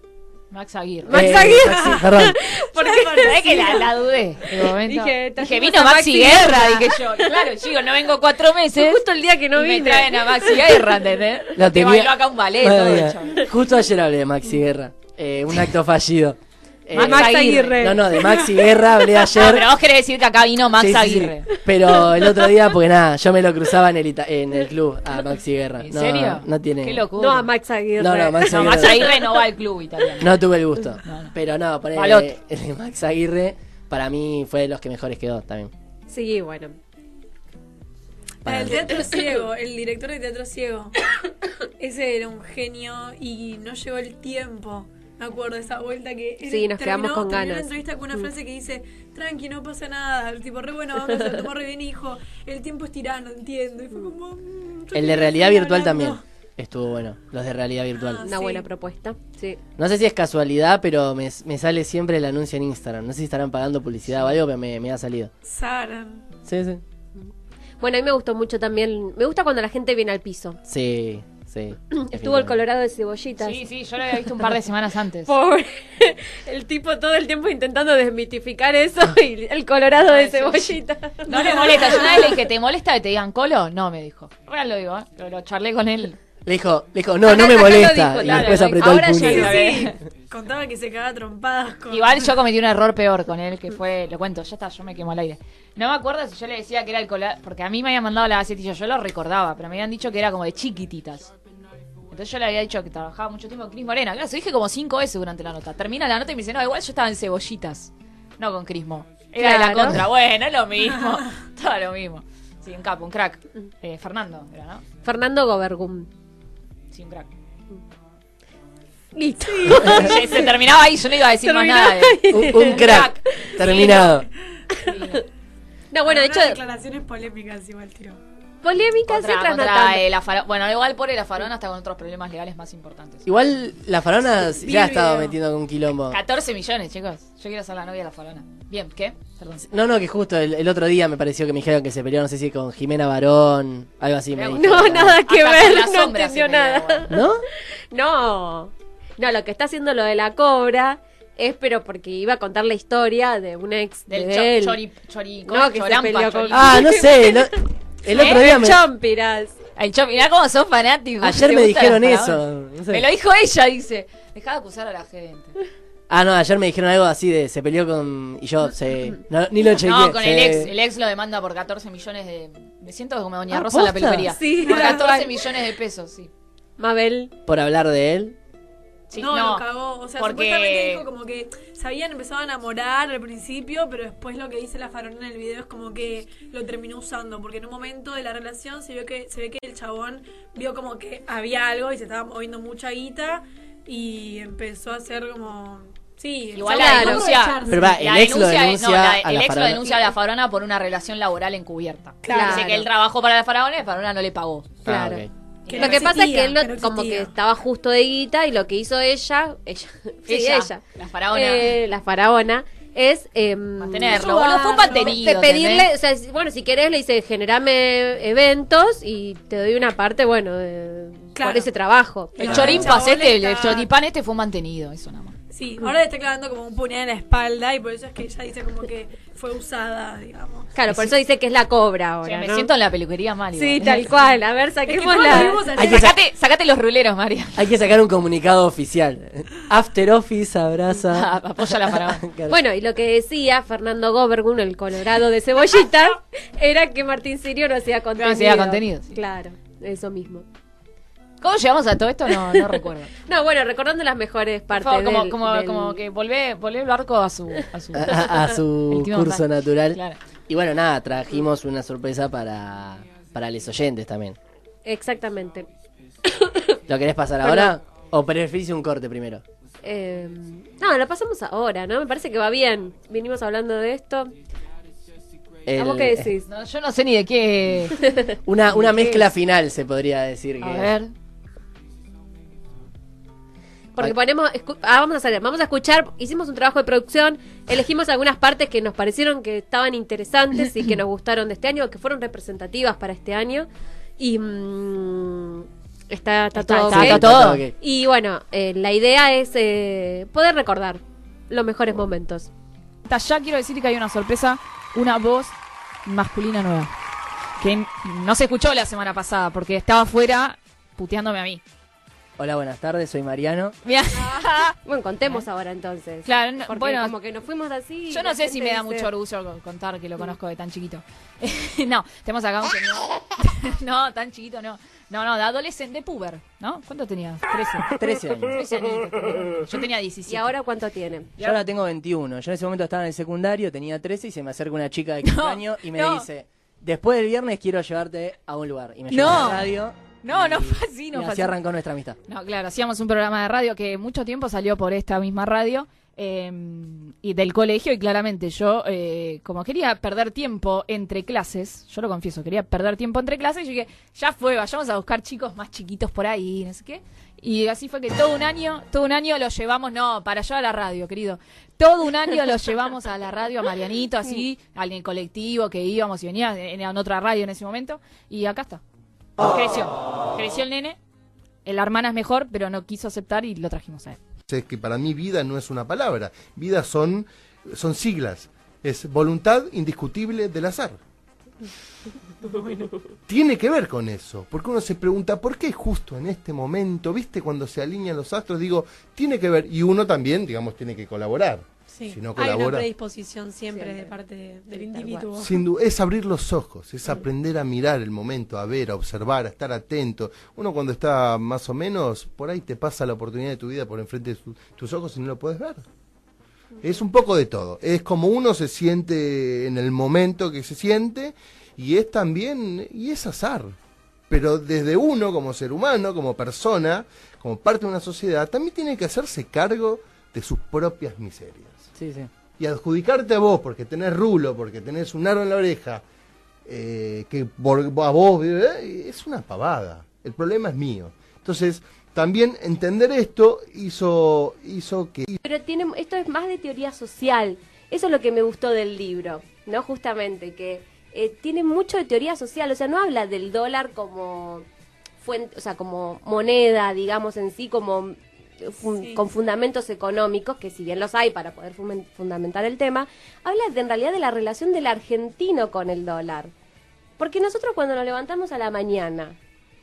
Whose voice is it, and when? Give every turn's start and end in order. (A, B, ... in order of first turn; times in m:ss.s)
0:00.5-0:01.6 A
0:01.0-0:03.8 B
0:01.1-0:02.4 C
0:01.6-0:02.1 D
0:02.6-0:03.8 D
0:03.0-0:09.0 A
0:04.5-0:07.4 B
0:08.7-0:11.0 B
0:09.5-0:13.5 A
0:11.6-0:19.7 C
0:16.9-0:18.1 A
0:16.9-0:18.7 B
0:19.3-0:21.5 A
0:20.8-0:27.0 C
0:21.7-0:22.5 B
0:25.8-0:27.5 A
0:27.2-0:29.1 B
0:28.0-0:29.2 C
0:28.4-0:30.4 A
0:30.2-0:35.7 C
0:31.0-0:31.3 A
0:31.9-0:32.3 A
0:36.1-0:36.8 B
0:38.4-0:39.1 C
0:38.4-0:41.0 D
0:41.8-0:56.2 D
0:46.4-0:48.3 B
0:54.9-0:58.3 C
0:57.9-0:58.7 D
0:58.2-0:59.6 B
0:59.8-1:05.3 C
1:05.4-1:06.2 D
1:06.4-1:06.8 C
1:07.8-1:10.6 B
1:10.7-1:12.6 C
1:12.0-1:13.6 B
1:13.4-1:15.3 A
1:15.3-1:22.3 B
1:20.0-1:26.2 A
1:21.3-1:22.3 D
1:26.4-1:29.6 C
1:27.2-1:29.7 B
1:27.8-1:30.0 A
1:29.0-1:32.3 D
1:31.9-1:41.3 A
1:42.1-1:54.8 A
1:49.4-1:50.0 B
1:55.0-1:56.1 B
1:56.9-1:57.3 A
1:59.1-2:00.5 B
1:59.5-2:00.1 D
1:59.9-2:04.1 A
2:01.4-2:03.5 B
2:02.3-2:04.3 C
2:04.8-2:05.2 A
2:05.9-2:06.6 B
2:06.0-2:08.2 D
2:08.6-2:10.0 B
2:09.1-2:13.2 A
2:13.2-2:16.2 C
2:14.6-2:15.3 D
2:16.1-2:19.6 A
2:19.6-2:25.2 C
2:24.3-2:27.1 A
2:24.5-2:27.3 B
2:27.1-2:27.4 C
2:27.9-2:34.8 B
2:34.1-2:36.9 A
2:35.4-2:39.5 B
2:36.5-2:38.8 C
2:38.1-2:38.5 A
2:39.8-2:45.6 A
2:41.2-2:43.0 C
2:46.1-2:50.7 C
2:49.8-2:56.3 A
2:53.5-2:54.3 C
2:54.2-2:55.3 B
2:54.6-2:55.0 D
2:56.8-2:57.3 B
2:57.5-2:58.4 C
2:59.1-2:59.6 A
2:59.1-3:18.0 D
3:00.2-3:01.0 A
3:16.5-3:24.8 A
3:16.6-3:17.3 B
3:17.6-3:20.0 C
3:22.2-3:22.8 D
3:22.3-3:22.9 B
3:24.8-3:25.3 C
3:24.8-3:42.9 B
3:25.6-3:26.1 A
3:25.7-3:27.3 D
3:30.3-3:31.8 A
3:33.8-3:35.9 A
3:34.1-3:35.1 D
3:41.4-3:41.7 D
3:42.4-3:43.9 D
3:42.4-3:45.4 A
3:42.5-3:42.9 C
3:45.5-3:50.7 D
3:50.7-3:52.7 B
3:52.2-3:54.1 A
3:53.5-3:55.7 B
3:54.8-3:56.1 D
3:55.8-3:56.2 C
3:55.8-3:57.6 A
3:57.6-4:02.6 C
4:01.1-4:02.2 A
4:02.5-4:10.4 B
4:08.2-4:09.2 A
4:11.4-4:13.1 A
4:12.4-4:12.7 B
4:13.2-4:16.0 B
4:14.7-4:20.2 A
4:17.9-4:24.4 C
4:24.8-4:25.7 B
4:26.3-4:26.8 B
4:26.9-4:29.4 C
4:27.4-4:27.8 B
4:29.8-4:34.3 B
4:35.6-4:36.3 C
4:35.8-4:36.4 B
4:36.5-4:38.0 A
4:38.0-4:38.3 B
4:38.4-4:40.9 C
4:38.7-4:39.3 A
4:40.6-4:41.1 A
4:44.0-4:53.7 B
4:54.2-5:02.5 B
4:56.5-4:57.6 A
4:56.9-4:57.7 C
5:03.0-5:05.5 A
5:06.0-5:06.9 A
5:07.6-5:11.6 A
5:12.4-5:13.8 C
5:13.8-5:14.7 A
5:14.2-5:19.1 B
5:16.2-5:17.1 A
5:18.1-5:30.5 A
5:27.9-5:28.6 C
5:30.3-5:31.3 B
5:31.4-5:31.6 A
5:31.4-5:42.2 C
5:35.2-5:36.3 A
5:39.1-5:39.6 A
5:40.2-5:41.5 A
5:42.3-6:08.8 A
6:09.4-6:11.0 A
6:11.6-6:14.2 A
6:14.5-6:21.0 E
6:22.4-6:22.9 D
6:23.3-6:32.9 E
6:31.9-6:35.6 D
6:33.7-6:34.1 B
6:34.7-6:35.3 B
6:35.4-6:45.8 E
6:46.8-6:53.7 E
6:54.3-7:01.9 E
7:02.0-7:02.3 C
7:02.6-7:06.0 E
7:06.6-7:15.4 E
7:15.4-7:24.6 B
7:25.2-7:36.5 B
7:37.2-7:39.4 B